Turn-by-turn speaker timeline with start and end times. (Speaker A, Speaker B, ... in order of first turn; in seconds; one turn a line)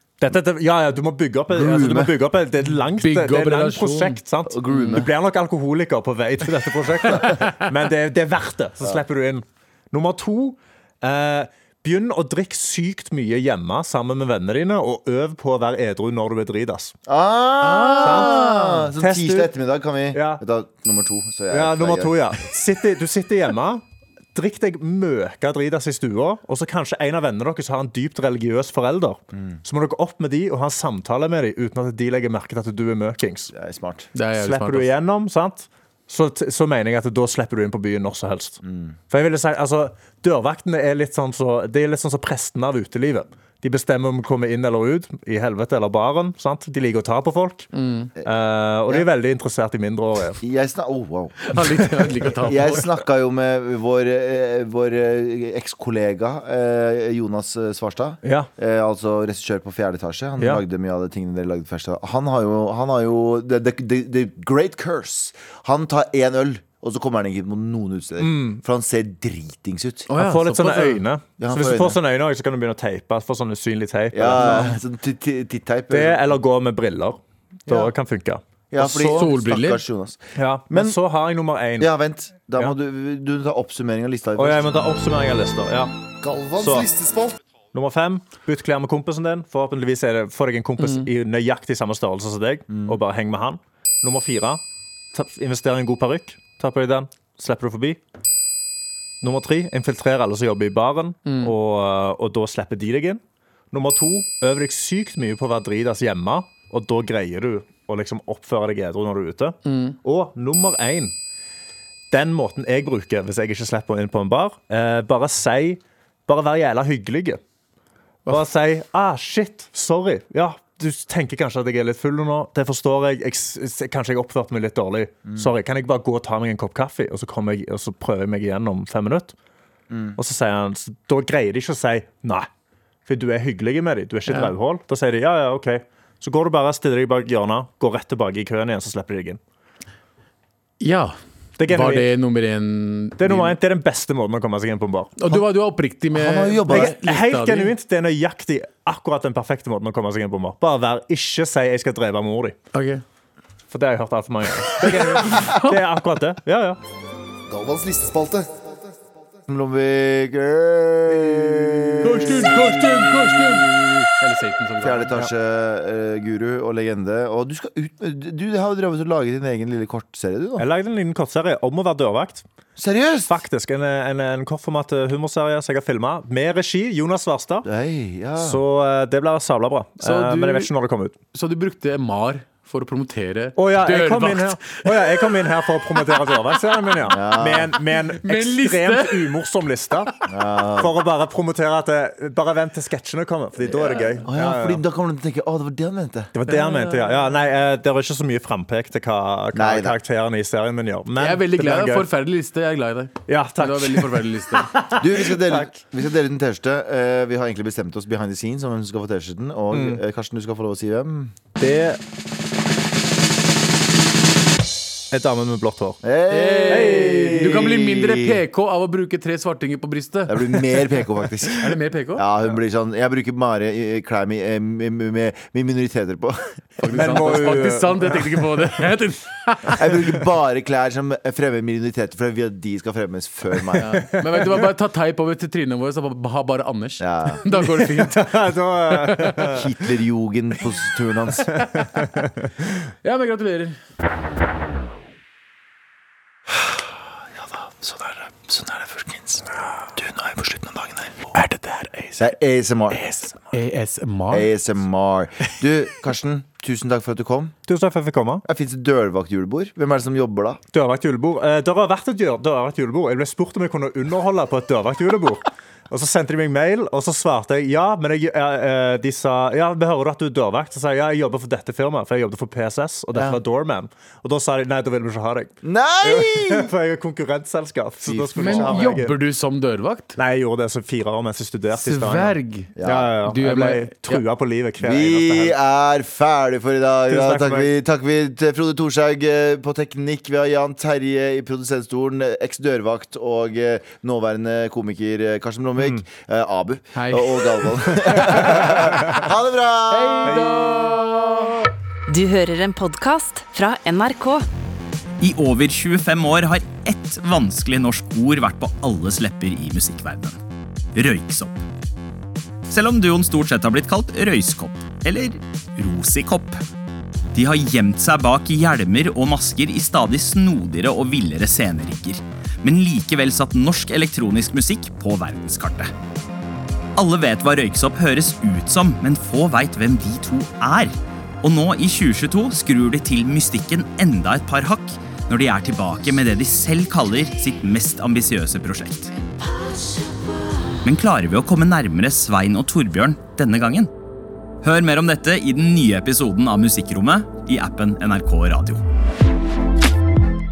Speaker A: 0.2-16.9
Speaker B: 1.5-2.1
Speaker C: 2.9-4.2
Speaker B: 4.5-5.1
Speaker C: 7.2-7.5
Speaker B: 17.1-22.5
Speaker C: 17.6-18.9
Speaker A: 18.0-19.5
Speaker A: 20.1-20.4
Speaker A: 21.5-33.5
Speaker B: 29.3-29.6
Speaker B: 33.5-34.1
Speaker C: 34.1-34.9
Speaker A: 34.3-47.7
Speaker B: 38.6-39.0
Speaker C: 47.7-48.1
Speaker A: 48.2-50.4
Speaker B: 50.4-51.6
Speaker C: 51.4-52.9
Speaker B: 52.4-70.1
Speaker A: 58.2-58.5
Speaker A: 68.2-68.6
Speaker C: 70.1-71.0
Speaker A: 70.1-74.8
Speaker B: 71.4-72.0
Speaker B: 74.1-76.3
Speaker C: 74.5-74.7
Speaker A: 75.9-78.4
Speaker B: 77.7-77.9
Speaker B: 78.7-81.0
Speaker C: 78.8-79.8
Speaker A: 80.3-81.9
Speaker B: 81.8-84.7
Speaker A: 84.4-85.9
Speaker D: 86.2-87.4
Speaker A: 86.6-86.9
Speaker A: 87.7-98.0
Speaker B: 92.7-93.0
Speaker A: 99.2-111.2
Speaker C: 101.2-101.5
Speaker C: 109.7-110.0
Speaker A: 112.1-117.4
Speaker A: 118.3-129.3
Speaker B: 129.9-130.2
Speaker A: 130.2-132.5
Speaker A: 133.1-139.4
Speaker C: 134.3-134.5
Speaker C: 140.8-143.6
Speaker A: 141.6-142.1
Speaker A: 143.2-145.1
Speaker C: 145.2-147.7
Speaker B: 146.1-146.9
Speaker A: 146.7-152.6
Speaker C: 152.7-153.0
Speaker A: 153.7-156.8
Speaker C: 154.7-155.8
Speaker D: 157.5-158.9
Speaker B: 159.5-164.1
Speaker A: 161.1-162.5
Speaker C: 162.0-165.1
Speaker B: 164.8-170.7
Speaker A: 170.6-172.4
Speaker B: 172.8-173.4
Speaker A: 173.3-177.7
Speaker B: 177.6-178.6
Speaker A: 178.4-181.1
Speaker C: 180.0-180.7
Speaker C: 181.3-185.3
Speaker A: 183.6-190.1
Speaker C: 186.1-186.5
Speaker B: 187.1-187.8
Speaker C: 188.2-189.3
Speaker B: 190.3-190.9
Speaker A: 190.7-194.8
Speaker C: 193.7-194.2
Speaker B: 194.2-196.3
Speaker A: 196.3-202.1
Speaker C: 196.5-197.2
Speaker B: 199.5-200.0
Speaker C: 201.2-204.7
Speaker A: 203.3-205.7
Speaker B: 204.9-211.3
Speaker A: 209.7-210.0
Speaker A: 211.6-212.0
Speaker A: 215.1-216.0
Speaker B: 216.0-218.4
Speaker C: 216.3-220.4
Speaker A: 216.7-217.8
Speaker B: 220.3-226.5
Speaker C: 221.6-222.2
Speaker C: 226.8-230.2
Speaker A: 226.9-228.4
Speaker B: 229.7-234.1
Speaker C: 233.7-238.3
Speaker A: 233.8-234.7
Speaker B: 237.0-237.4
Speaker A: 237.6-239.7
Speaker C: 238.9-239.5
Speaker B: 239.4-241.6
Speaker A: 241.5-242.7
Speaker C: 243.0-243.8
Speaker B: 247.4-251.3
Speaker C: 251.3-252.3
Speaker B: 252.2-253.0
Speaker C: 252.9-254.5
Speaker B: 254.3-257.6
Speaker A: 257.7-258.4
Speaker B: 258.4-260.6
Speaker A: 260.7-279.2
Speaker B: 273.1-273.4
Speaker B: 275.6-276.7
Speaker B: 278.0-279.0
Speaker C: 278.4-280.1
Speaker A: 280.1-285.6
Speaker C: 281.8-282.7
Speaker B: 282.8-283.1
Speaker C: 283.2-284.2
Speaker B: 284.8-300.3
Speaker A: 287.1-287.7
Speaker C: 296.9-298.4
Speaker A: 298.1-299.2
Speaker C: 299.9-301.7
Speaker A: 300.2-301.0
Speaker E: 302.1-304.4
Speaker F: 305.2-310.4
Speaker F: 310.9-311.6
Speaker F: 312.7-316.6
Speaker F: 317.3-325.9
Speaker F: 326.9-339.1
Speaker F: 340.8-343.9
Speaker F: 344.6-348.8